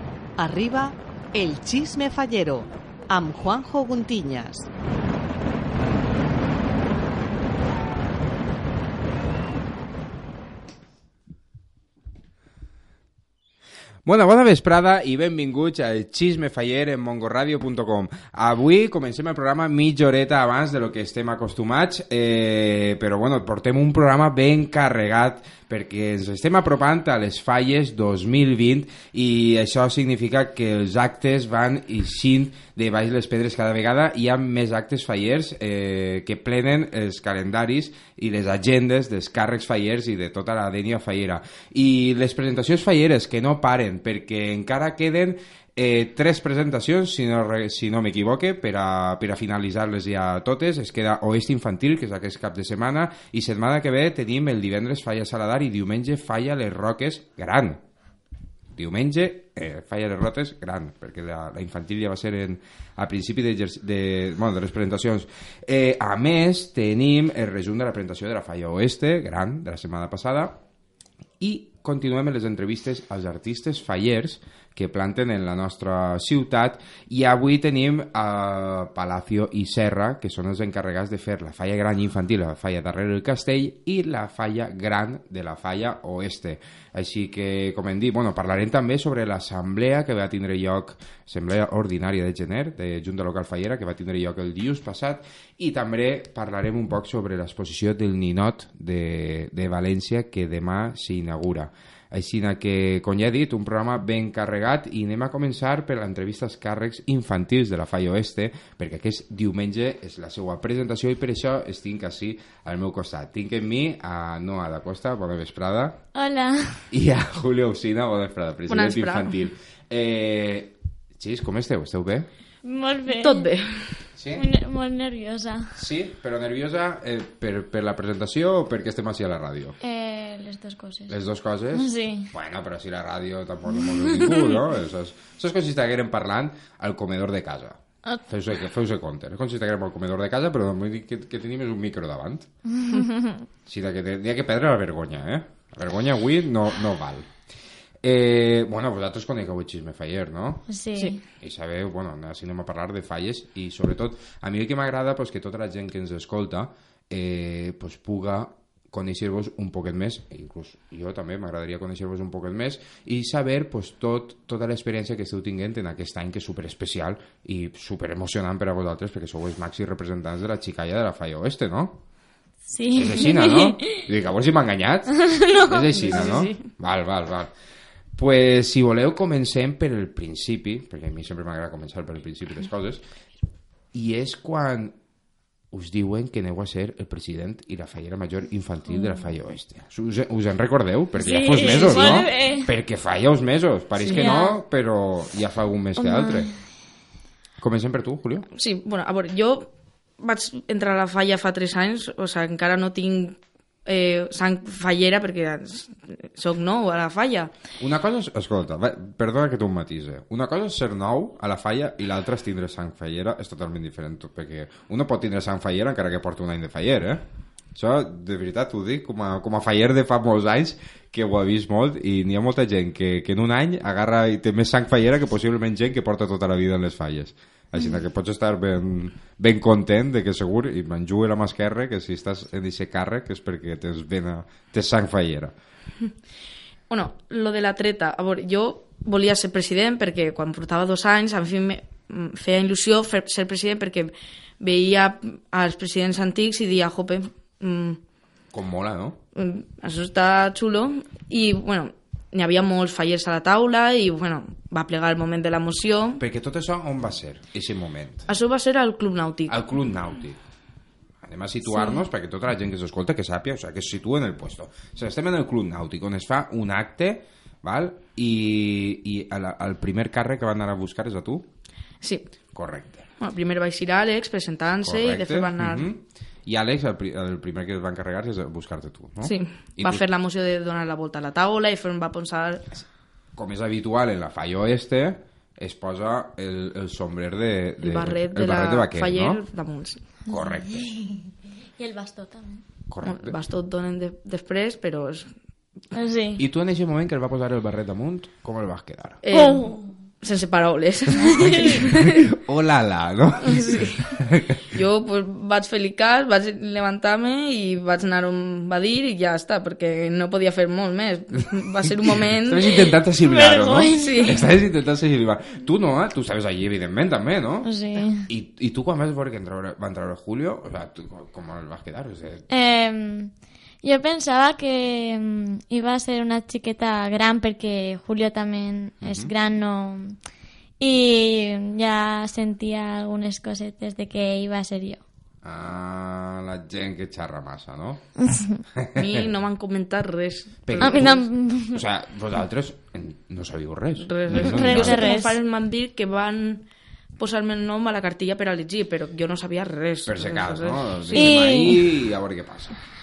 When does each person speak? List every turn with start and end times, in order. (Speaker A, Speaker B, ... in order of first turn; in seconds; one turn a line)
Speaker A: 0.4-4.7
Speaker B: 14.1-57.8
Speaker B: 58.8-70.6
Speaker B: 71.4-116.0
Speaker C: 116.1-116.8
Speaker B: 116.9-122.3
Speaker D: 118.7-119.4
Speaker C: 122.6-123.5
Speaker D: 123.1-124.0
Speaker B: 124.2-124.5
Speaker C: 124.3-125.7
Speaker B: 125.7-129.8
Speaker C: 129.8-131.1
Speaker B: 131.1-142.5
Speaker C: 131.7-132.3
Speaker C: 134.2-134.4
Speaker C: 142.8-143.4
Speaker B: 143.7-147.3
Speaker B: 148.0-150.7
Speaker C: 150.7-151.2
Speaker B: 151.4-172.0
Speaker C: 172.7-174.0
Speaker B: 172.9-177.5
Speaker C: 175.3-176.2
Speaker D: 175.9-176.7
Speaker B: 178.2-183.0
Speaker B: 183.9-185.0
Speaker B: 185.7-196.5
Speaker C: 191.2-192.7
Speaker D: 194.0-194.3
Speaker C: 194.1-194.6
Speaker C: 196.0-196.5
Speaker B: 197.6-198.5
Speaker D: 198.5-207.5
Speaker B: 207.8-235.5
Speaker D: 236.9-248.0
Speaker B: 248.5-249.2
Speaker D: 249.3-256.2
Speaker B: 256.2-258.3
Speaker D: 258.3-259.6
Speaker B: 259.5-260.4
Speaker B: 261.2-271.5
Speaker D: 272.0-272.3
Speaker B: 272.5-273.1
Speaker D: 273.2-275.9
Speaker B: 274.8-280.0
Speaker D: 279.2-282.7
Speaker B: 283.4-289.4
Speaker D: 287.8-290.0
Speaker B: 290.3-290.8
Speaker C: 290.3-292.6
Speaker B: 292.9-293.4
Speaker D: 293.0-295.3
Speaker C: 295.9-296.4
Speaker B: 296.4-299.2
Speaker D: 299.2-302.2
Speaker C: 299.3-299.9
Speaker C: 301.3-301.8
Speaker B: 301.9-304.5
Speaker D: 303.4-312.8
Speaker B: 312.3-317.7
Speaker C: 313.2-314.1
Speaker D: 313.9-314.4
Speaker C: 317.6-318.2
Speaker B: 318.2-322.4
Speaker C: 322.5-330.2
Speaker B: 329.0-329.3
Speaker C: 330.8-335.0
Speaker B: 335.4-338.0
Speaker C: 338.2-338.6
Speaker B: 338.8-339.2
Speaker D: 338.9-341.2
Speaker B: 340.6-345.1
Speaker C: 340.8-341.8
Speaker D: 344.0-351.4
Speaker C: 344.3-345.3
Speaker B: 350.1-352.8
Speaker C: 351.1-351.8